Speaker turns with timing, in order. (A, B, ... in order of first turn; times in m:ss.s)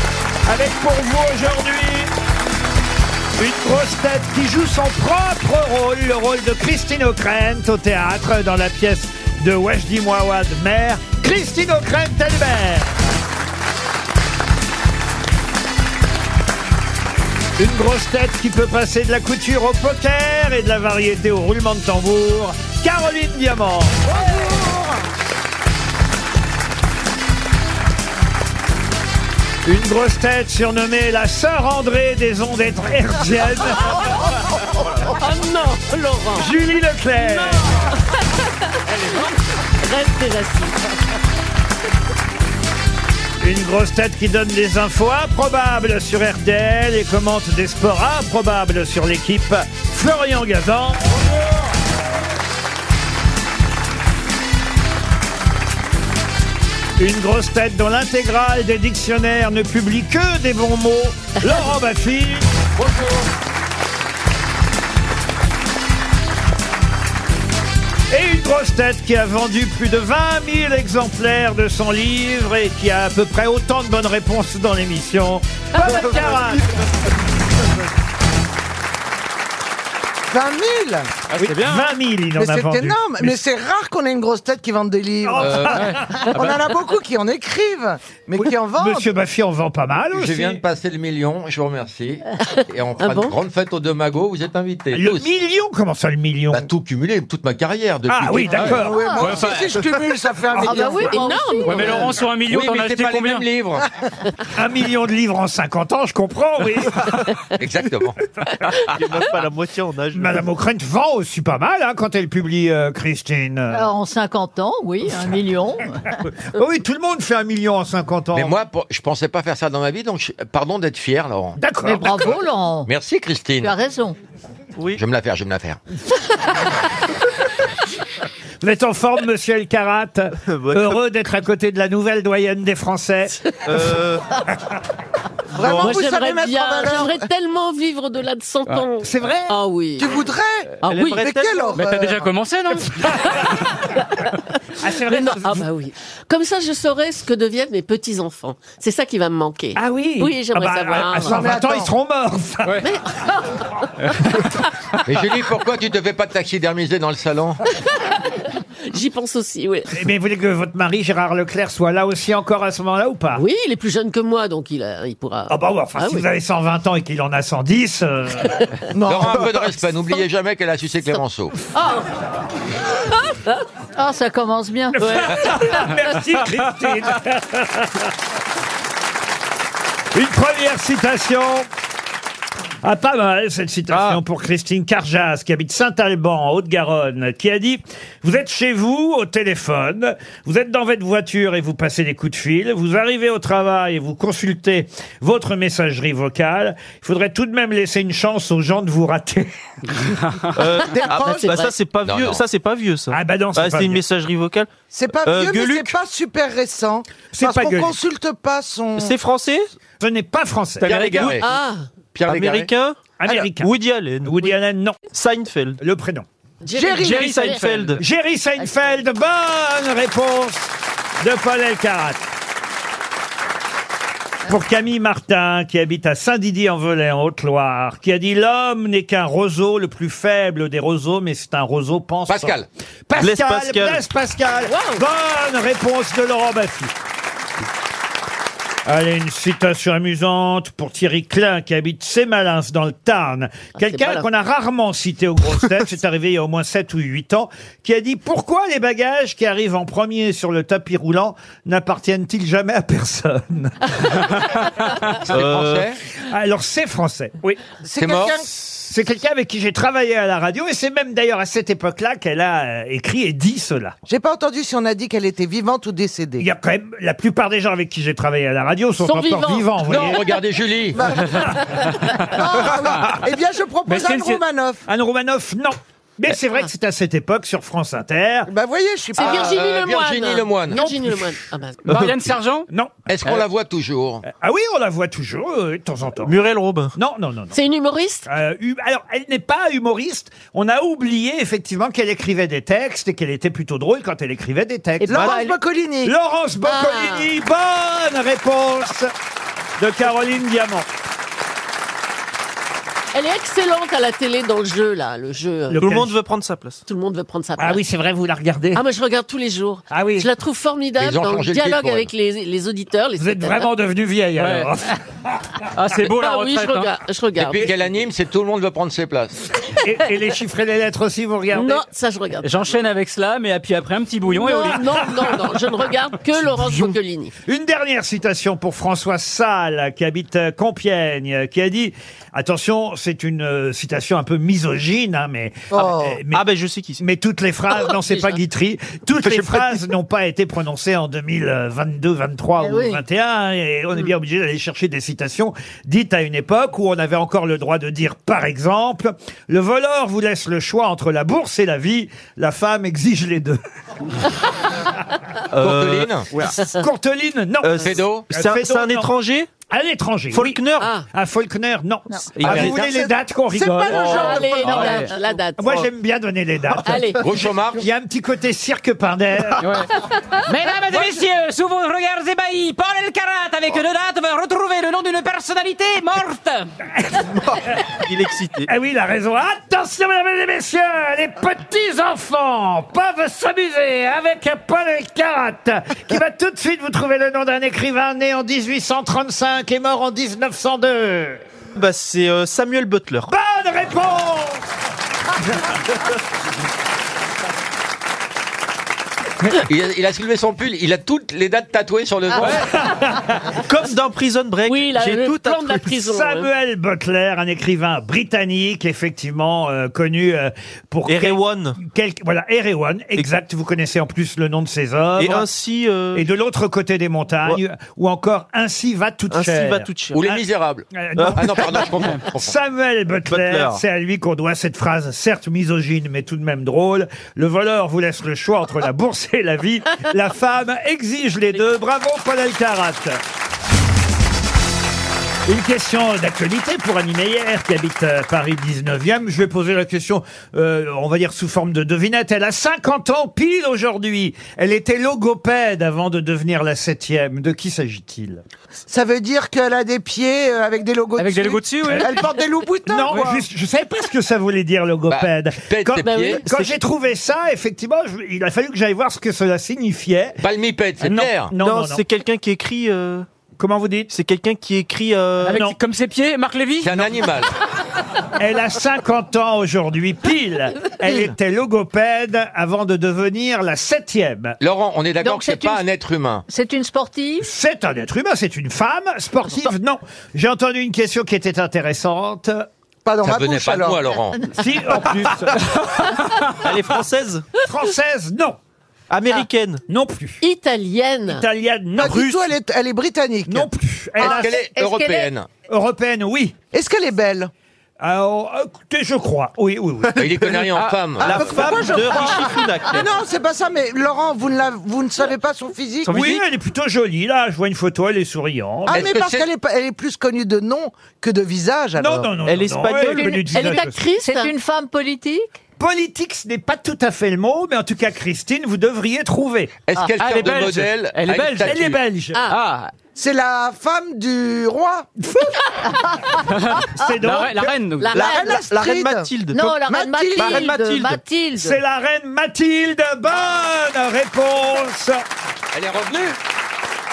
0:00.4-0:02.1 A
0:03.4-0:12.9 A
0:17.6-0:24.5 A
0:24.1-0:24.9 B
0:29.6-0:34.0 A
0:35.0-0:36.5 C
0:36.4-0:37.7 A
0:37.2-0:38.4 C
0:39.8-0:40.8 C
0:43.4-0:51.2 A
0:57.0-1:02.5 A
1:02.8-1:03.2 D
1:08.1-1:16.7 A
1:20.3-1:21.1 E
1:21.3-1:21.9 F
1:21.4-1:23.4 A
1:22.4-1:29.1 E
1:25.2-1:26.2 A
1:25.4-1:25.7 D
1:25.7-1:26.6 F
1:28.4-1:30.6 A
1:30.1-1:35.3 D
1:32.4-1:33.4 C
1:34.9-1:36.7 A
1:36.5-1:38.8 D
1:38.1-1:39.0 A
1:38.5-1:39.8 F
1:38.7-1:41.2 E
1:38.9-1:39.3 B
1:40.5-1:42.1 B
1:40.6-1:42.2 C
1:41.6-1:43.4 F
1:42.5-1:43.8 D
1:44.5-1:47.2 A
1:47.6-1:48.2 D
1:48.9-1:50.4 G
1:50.1-1:53.9 A
1:53.7-1:56.0 B
1:56.5-1:58.6 A
1:58.3-2:01.6 D
2:01.6-2:02.3 A
2:01.8-2:02.9 B
2:02.8-2:03.7 D
2:03.6-2:04.2 B
2:04.8-2:05.0 G
2:04.9-2:05.8 D
2:08.6-2:13.4 A
2:10.4-2:11.0 G
2:13.6-2:14.2 G
2:15.5-2:17.3 E
2:15.6-2:16.0 G
2:15.8-2:20.2 C
2:19.0-2:19.5 A
2:20.0-2:22.3 E
2:20.8-2:21.2 C
2:20.8-2:21.9 G
2:21.7-2:23.5 F
2:24.8-2:25.6 A
2:25.0-2:31.4 C
2:29.8-2:32.9 A
2:31.2-2:31.9 E
2:32.8-2:33.7 C
2:34.0-2:34.4 F
2:35.0-2:37.6 D
2:38.0-2:39.9 C
2:39.9-2:43.4 A
2:43.3-2:46.2 C
2:45.5-2:48.6 A
2:48.9-2:49.8 E
2:49.0-2:51.5 D
2:51.1-2:52.1 C
2:53.2-2:53.6 C
2:53.9-2:55.4 B
2:55.0-2:58.1 A
2:55.0-2:55.9 C
3:00.1-3:01.7 A
3:02.8-3:19.5 A
3:03.9-3:04.2 G
3:19.9-3:20.5 F
3:20.5-3:24.7 G
3:20.9-3:21.7 E
3:21.0-3:21.6 C
3:22.0-3:22.4 D
3:23.1-3:24.0 A
3:24.9-3:29.2 E
3:25.2-3:25.9 G
3:27.3-3:28.0 A
3:29.0-3:29.7 G
3:30.0-3:31.2 A
3:30.8-3:31.4 D
3:30.8-3:31.4 G
3:31.2-3:31.9 C
3:32.2-3:32.7 D
3:32.2-3:34.5 G
3:33.2-3:33.7 A
3:34.2-3:35.0 A
3:35.1-3:35.8 G
3:35.8-3:36.2 A
3:36.6-3:37.7 C
3:36.7-3:37.3 E
3:36.9-3:38.0 F
3:37.2-3:38.0 G
3:38.0-3:42.2 A
3:38.6-3:38.9 C
3:44.4-3:52.6 A
3:52.3-3:52.7 D
3:53.1-3:56.9 A
3:53.2-3:54.0 G
3:54.6-3:55.0 C
3:58.8-4:14.2 A
4:03.8-4:04.2 C
4:15.3-4:16.0 D
4:15.3-4:15.9 G
4:16.2-4:17.6 A
4:17.8-4:18.5 E
4:18.0-4:18.8 D
4:18.9-4:24.0 A
4:24.1-4:26.5 E
4:26.4-4:30.3 A
4:29.0-4:30.1 C
4:29.8-4:31.1 D
4:30.9-4:34.8 E
4:33.9-4:34.4 F
4:34.9-4:38.5 A
4:38.5-4:39.6 E
4:39.2-4:42.0 C
4:39.2-4:40.9 D
4:41.8-4:42.7 F
4:42.7-4:43.0 A
4:43.1-4:44.2 D
4:44.2-4:46.4 A
4:46.2-4:46.9 G
4:46.9-4:47.6 A
4:47.5-4:48.3 C
4:48.2-4:55.4 A
4:55.0-4:56.1 E
4:55.1-4:55.4 G
4:56.0-4:59.1 A
4:56.6-4:57.3 C
4:59.8-5:00.9 A
5:03.1-5:05.8 C
5:05.7-5:06.1 A
5:05.8-5:06.8 G
5:06.8-5:07.8 C
5:07.6-5:08.8 A
5:08.7-5:13.7 C
5:09.9-5:10.3 A
5:11.0-5:12.1 D
5:13.2-5:15.0 A
5:14.4-5:14.7 F
5:15.7-5:16.9 F
5:16.1-5:17.7 C
5:17.4-5:19.4 D
5:19.8-5:21.8 A
5:21.5-5:22.8 C
5:22.4-5:25.5 F
5:24.2-5:27.3 C
5:27.5-5:36.4 A
5:35.7-5:36.2 E
5:36.3-5:37.0 G
5:37.0-5:53.6 A
5:37.8-5:38.4 C
5:39.2-5:39.8 G
5:42.6-5:43.0 B
5:55.5-5:56.6 G
5:55.6-5:56.3 D
5:56.6-5:59.1 A
5:57.6-5:59.5 G
5:57.8-5:58.3 D
5:59.7-6:05.0 A
6:00.3-6:00.9 G
6:00.8-6:01.0 C
6:02.4-6:02.8 G
6:02.4-6:05.0 E
6:03.9-6:05.9 C
6:04.6-6:05.1 F
6:05.6-6:07.1 A
6:06.8-6:07.2 C
6:07.2-6:07.8 D
6:07.7-6:09.8 A
6:09.6-6:09.9 F
6:10.4-6:16.7 F
6:17.3-6:18.7 G
6:18.6-6:31.4 A
6:31.7-6:33.3 G
6:33.3-6:34.6 A
6:39.5-6:42.6 D
6:42.6-6:43.5 A
6:43.6-6:45.9 G
6:44.6-6:46.5 C
6:45.9-6:55.5 A
6:51.0-6:51.8 G
6:55.2-6:56.2 G
6:56.1-7:00.4 A
6:59.3-7:00.2 G
7:00.1-7:02.5 D
7:00.9-7:13.2 A
7:01.2-7:01.5 G
7:03.3-7:03.8 G
7:15.4-7:28.4 A
7:28.9-7:33.4 E
7:31.2-7:32.2 F
7:32.9-7:40.4 A
7:33.0-7:33.4 F
7:35.1-7:36.4 D
7:36.0-7:36.4 C
7:40.4-7:41.5 D
7:41.0-7:42.0 A
7:41.6-7:43.2 G
7:43.6-7:44.1 A
7:44.1-7:45.6 G
7:45.4-7:47.2 F
7:46.8-7:47.5 D
7:48.4-7:54.6 A
7:54.6-7:56.4 D
7:55.2-7:55.8 B
7:56.5-7:57.5 B
7:57.4-8:02.7 A
8:03.0-8:04.1 E
8:03.2-8:04.5 D
8:04.5-8:06.2 A
8:06.3-8:06.5 F
8:06.6-8:07.5 G
8:07.6-8:08.6 A
8:09.1-8:09.8 G
8:09.9-8:10.4 A
8:10.4-8:11.4 C
8:11.3-8:12.2 A
8:12.0-8:13.7 E
8:12.0-8:12.4 G
8:13.5-8:14.5 A
8:14.2-8:15.3 B
8:14.2-8:15.5 D
8:15.7-8:16.6 A
8:16.7-8:17.5 E
8:18.0-8:20.6 A
8:20.2-8:21.9 D
8:20.2-8:23.1 G
8:21.2-8:26.3 E
8:26.1-8:26.4 G
8:26.1-8:29.1 A
8:28.9-8:32.4 E
8:28.9-8:29.5 D
8:32.0-8:33.9 A
8:32.4-8:33.5 G
8:33.0-8:34.5 C
8:33.0-8:35.6 B
8:35.8-8:39.8 A
8:39.9-8:42.0 D
8:40.2-8:41.8 F
8:41.6-8:42.4 A
8:42.3-8:42.6 C
8:42.5-8:42.9 F
8:43.1-8:45.1 E
8:45.9-8:46.2 B
8:46.5-8:48.2 F
8:47.0-8:47.7 A
8:48.0-8:48.6 C
8:48.1-8:49.8 G
8:48.1-8:50.8 E
8:49.5-8:51.8 B
8:50.4-8:51.2 G
8:51.6-8:55.2 A
8:55.7-8:56.4 D